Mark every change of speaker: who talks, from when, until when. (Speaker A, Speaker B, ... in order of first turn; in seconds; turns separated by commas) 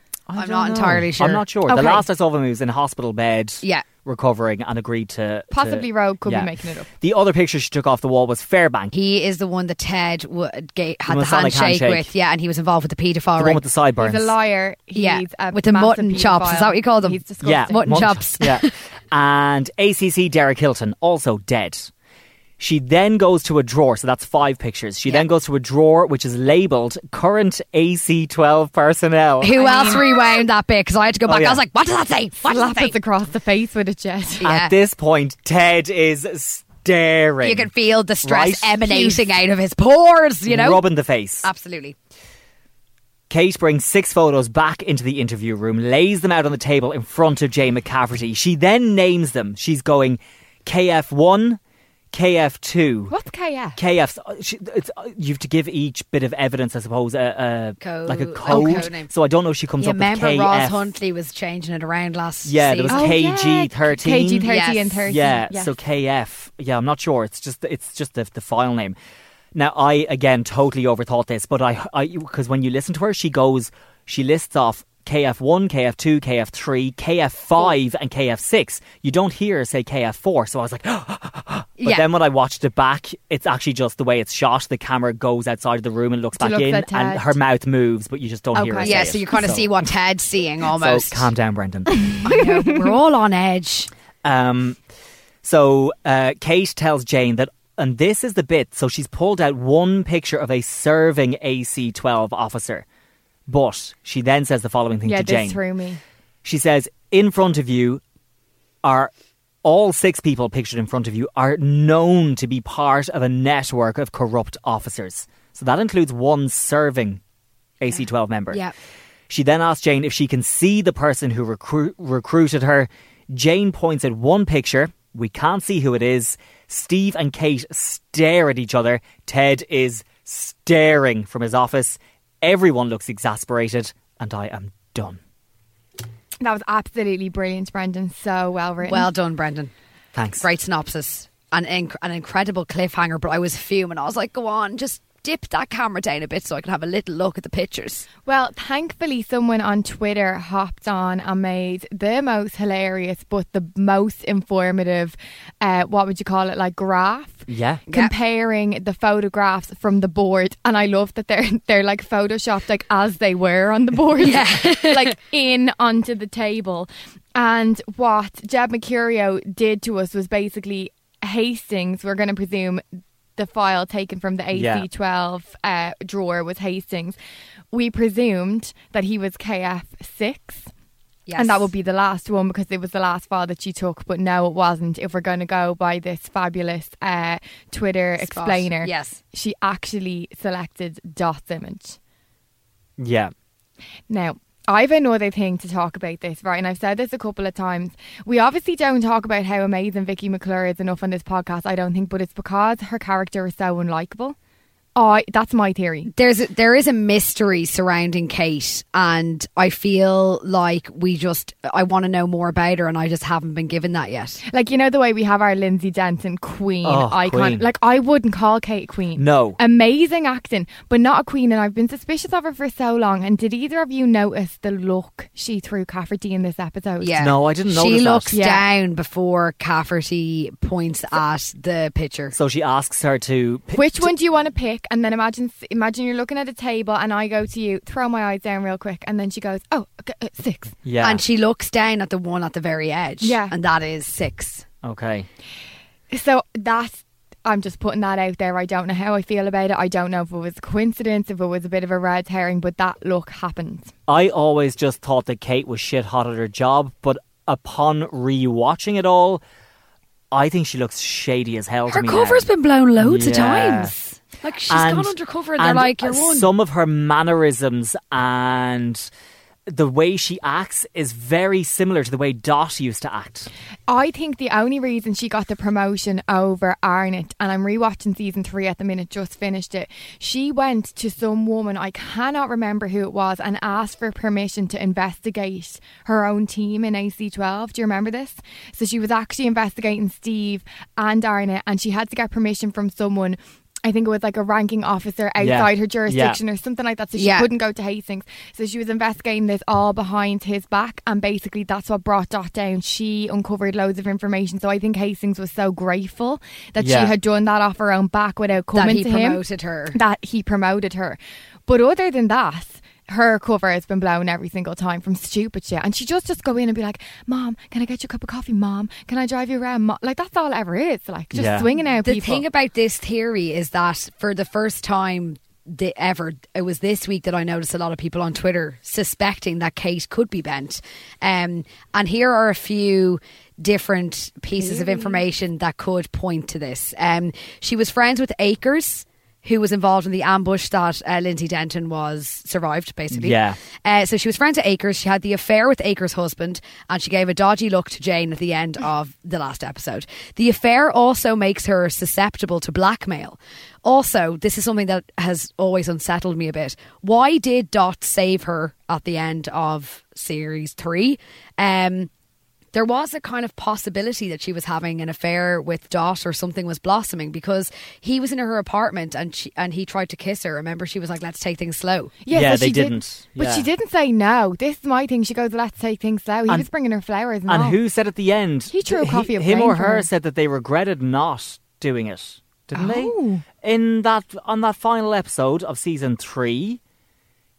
Speaker A: 0.3-8.9, Speaker B: 0.4-2.0, Speaker C: 1.7-2.0, Speaker C: 5.5-6.9, Speaker B: 8.9-13.6, Speaker A: 11.1-12.1, Speaker A: 13.4-14.3, Speaker C: 14.0-18.1, Speaker B: 14.9-18.7, Speaker A: 17.4-21.9, Speaker A: 22.6-29.9, Speaker B: 29.4-33.0, Speaker C: 29.6-30.1, Speaker A: 31.3-31.6, Speaker C: 32.5-34.4, Speaker B: 34.4-34.7, Speaker A: 34.4-37.7, Speaker B: 37.4-40.9, Speaker A: 38.2-39.2, Speaker A: 40.5-41.5, Speaker B: 41.4-42.0, Speaker A: 43.3-51.6, Speaker A: 52.1-53.1, Speaker C: 53.1-53.8, Speaker A: 53.8-60.9, Speaker B: 57.8-59.1, Speaker C: 58.5-58.8, Speaker B: 59.8-63.1, Speaker A: 62.5-64.5, Speaker C: 62.9-65.8, Speaker B: 64.4-65.1, Speaker A: 65.1-69.0, Speaker A: 69.5-89.7, Speaker B: 81.8-82.1, Speaker C: 86.4-87.3, Speaker B: 88.6-91.3, Speaker C: 88.6-89.0, Speaker A: 90.7-92.2, Speaker B: 92.2-93.9, Speaker A: 94.2-94.8, Speaker A: 95.4-102.8, Speaker A: 103.5-105.6, Speaker C: 105.1-106.0, Speaker A: 106.5-108.0, Speaker A: 108.8-109.1, Speaker A: 109.6-117.2, Speaker A: 117.8-118.6, Speaker B: 117.9-118.8, Speaker A: 119.3-135.2, Speaker C: 136.4-139.1, Speaker B: 138.8-139.7, Speaker A: 140.1-140.4, Speaker B: 140.4-148.1, Speaker C: 148.3-172.8, Speaker A: 157.5-157.8, Speaker B: 157.9-158.1, Speaker B: 164.2-165.2, Speaker C: 173.4-177.2, Speaker A: 174.5-174.9, Speaker C: 177.7-180.7, Speaker B: 181.3-181.7, Speaker C: 181.4-192.0, Speaker B: 188.2-189.2, Speaker A: 193.0-193.3, Speaker C: 194.1-204.4, Speaker C: 205.0-206.1, Speaker B: 206.1-214.4, Speaker C: 214.5-227.2, Speaker A: 216.8-217.7, Speaker A: 219.2-219.6, Speaker B: 227.0-232.3, Speaker A: 227.2-228.3, Speaker C: 228.3-228.7, Speaker A: 232.3-234.1, Speaker C: 233.7-240.8, Speaker A: 240.8-241.2, Speaker B: 241.0-244.6, Speaker C: 243.2-243.6, Speaker A: 244.8-245.3, Speaker C: 246.1-253.9, Speaker A: 254.1-259.4, Speaker A: 260.3-262.5, Speaker B: 261.9-266.5, Speaker A: 263.0-263.9, Speaker A: 264.7-269.1, Speaker A: 269.7-273.5, Speaker C: 273.9-322.4, Speaker A: 295.4-296.4, Speaker B: 297.2-297.5, Speaker A: 306.8-307.1, Speaker B: 308.7-310.0, Speaker A: 321.3-321.7, Speaker B: 322.0-362.1, Speaker C: 334.6-335.2, Speaker A: 343.1-343.6, Speaker B: 362.7-372.1, Speaker C: 372.2-377.8, Speaker A: 372.3-373.7, Speaker A: 377.5-386.8, Speaker C: 378.7-380.1, Speaker C: 382.8-383.4